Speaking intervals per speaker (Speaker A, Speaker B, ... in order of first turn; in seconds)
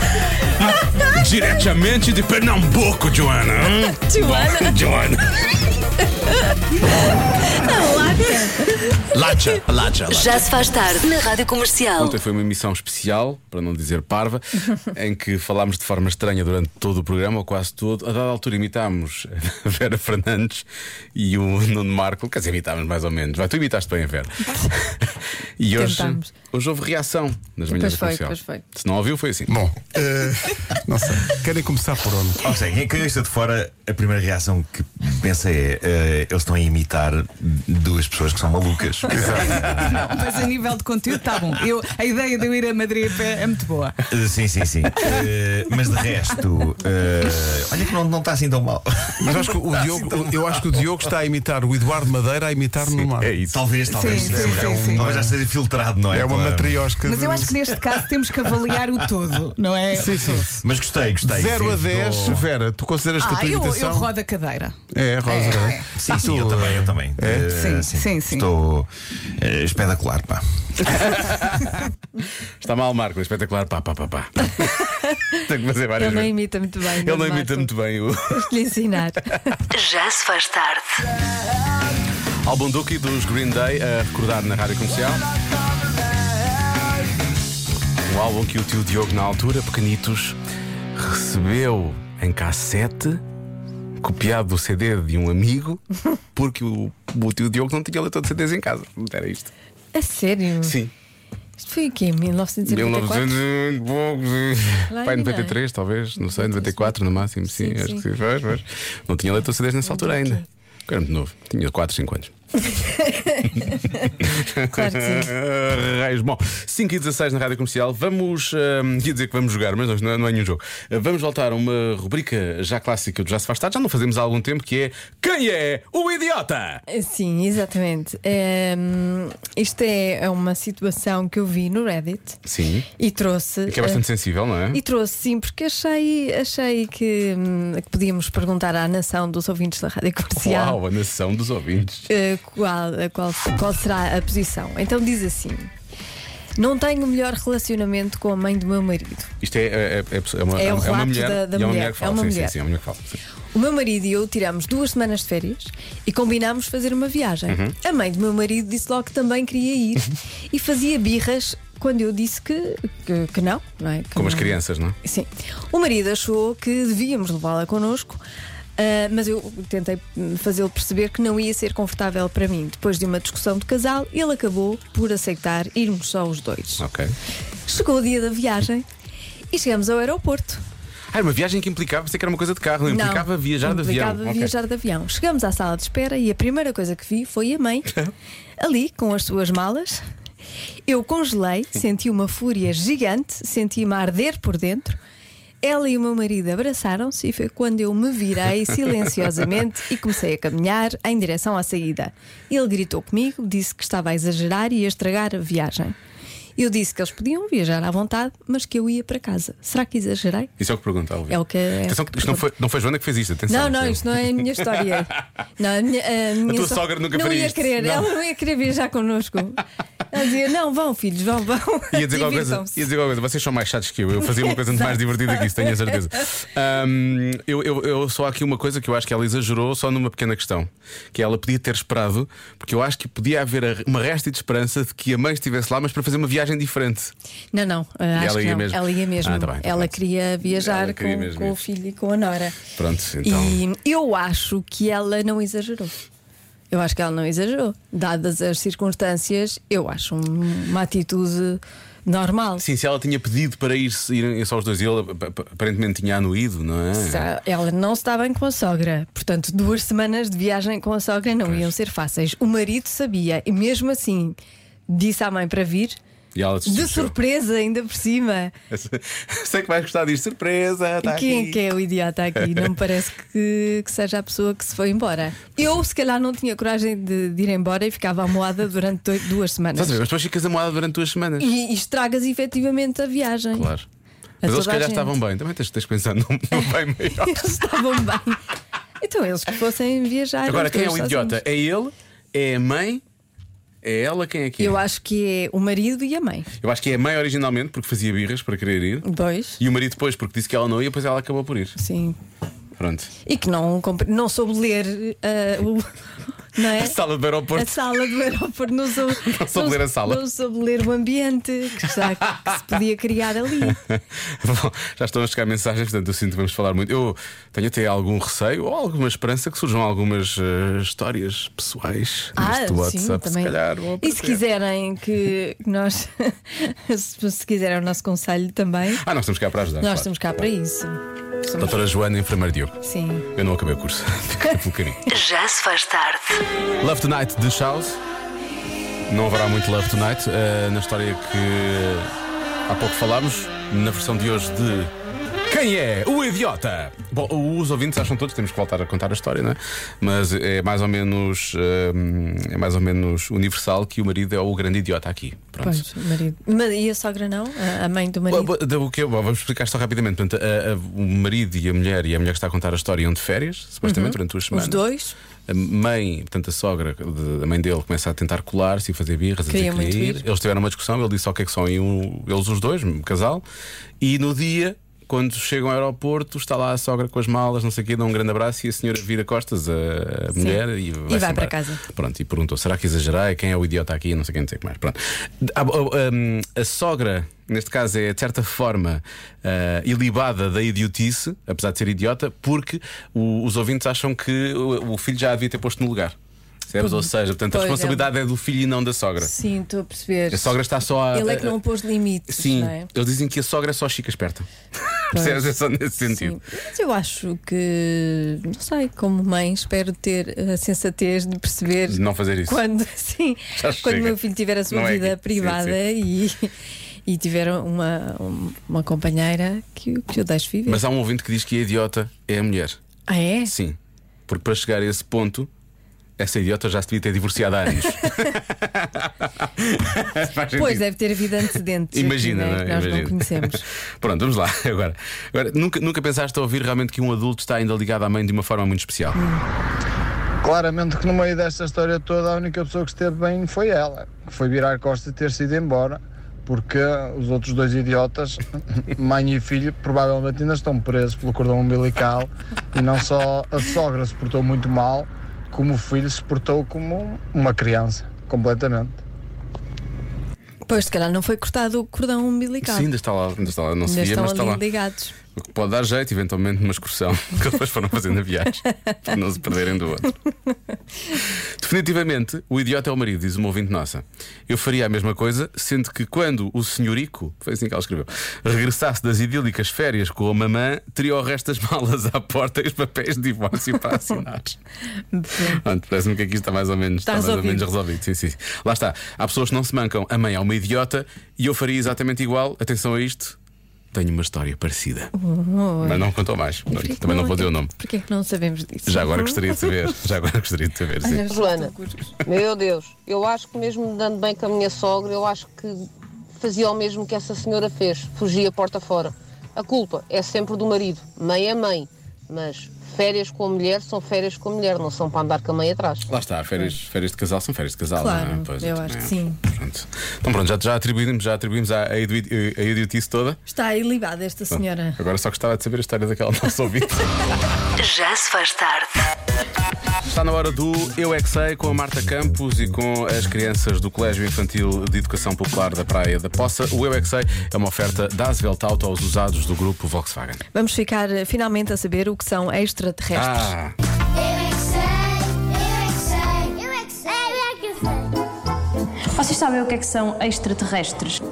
Speaker A: 0.6-5.5, 9.1-10.5, 12.0-29.6, 53.2-53.5, 70.9-71.7, 72.6-74.8, 75.5-76.3, 76.8-78.5, 82.4-85.2, 88.0-90.4, 90.9-93.2, 94.0-95.8, 96.3-99.5, 100.6-100.9, 102.7-112.3, 114.2-126.8, 132.4-132.9, 133.7-134.8, 140.3-142.1, 149.4-153.2, 157.5-157.7, 164.1-164.9, 176.8-177.1, 181.1-184.5, 210.6-215.0, 216.4-218.1, 221.9-237.1, 238.2-241.6, 242.8-243.6, 252.6-257.3, 261.4-261.7, 266.3-267.1, 268.7-271.7, 272.4-272.7, 279.8-281.5, 283.5-283.9, 284.4-287.4, 290.4-293.0, 293.8-294.8, 296.6-299.1, 299.6-301.8, 302.8-303.1, 306.6-307.8, 309.2-310.2, 312.0-312.5, 313.7-324.4, 328.9-330.4, 331.6-332.8, 333.3-335.0, 336.8-338.0, 339.1-342.1, 342.7-344.9, 345.5-355.8, 358.3-364.8, 365.5-373.4, 374.0-396.1, 396.7-399.3, 400.3-401.6, 402.3-406.4, 411.9-412.6, 413.6-415.8, 420.6-422.8, 423.4-425.5, 426.2-430.9, 431.9-439.2, 462.6-464.6, 465.3-470.1, 471.5-484.6, 485.4-493.4, 493.9-495.1, 495.8-497.7, 498.9-501.2, 516.1-523.4, 524.5-527.0, 530.0-540.4, 543.1-543.7
Speaker B: 3.8-4.8, 7.3-9.0, 25.7-26.3, 27.7-28.6, 74.6-75.4, 76.0-77.7, 78.3-79.5, 99.9-100.8, 101.6-103.4, 104.9-105.6, 106.3-108.0, 109.8-110.4, 112.8-114.1, 114.7-115.3, 126.9-132.4, 133.0-134.0, 134.7-140.8, 142.1-145.7, 146.6-149.3, 150.6-152.6, 153.5-168.2, 168.8-176.8, 177.7-178.8, 179.5-180.6, 182.9-187.9, 188.6-190.0, 190.8-195.0, 195.6-205.9, 206.6-210.5, 211.3-212.4, 213.5-222.8, 224.4-225.9, 237.5-242.6, 243.2-245.9, 246.7-252.6, 256.9-264.4, 264.9-266.0, 266.6-268.5, 271.0-280.0, 281.4-283.7, 284.4-285.1, 287.2-288.4, 289.0-291.4, 294.6-296.5, 299.0-299.6, 301.8-302.2, 303.2-305.9, 306.5-306.9, 307.5-313.8, 322.4-329.0, 329.8-331.8, 332.8-333.2, 355.6-358.5, 363.8-365.1, 369.5-370.2, 380.4-381.8, 396.8-398.1, 399.2-400.6, 401.1-402.9, 405.1-416.5, 417.1-420.8, 423.1-423.5, 430.6-433.6, 460.6-462.9, 463.9-465.1, 485.1-485.6, 487.1-487.7, 495.1-496.1, 496.7-499.7, 501.0-502.1, 518.0-519.4, 523.5-525.0, 540.5-543.5
Speaker C: 10.1-12.2, 79.7-81.0, 335.1-336.4, 527.8-529.0
Speaker D: 29.5-32.4, 39.1-39.7, 49.2-55.4, 56.1-58.0, 59.9-60.6, 61.2-64.1, 64.9-67.5
Speaker E: 32.4-40.0, 44.1-49.3, 53.4-56.9, 60.6-62.4, 66.0-70.4
Speaker F: 39.6-44.0, 53.9-55.0, 57.0-60.4, 63.2-65.8, 67.5-68.5
Speaker G: 440.4-459.0
Speaker H: 501.3-501.7, 502.2-505.8, 506.4-516.0
Speaker I: 544.2-548.1
Speaker J: 549.1-551.2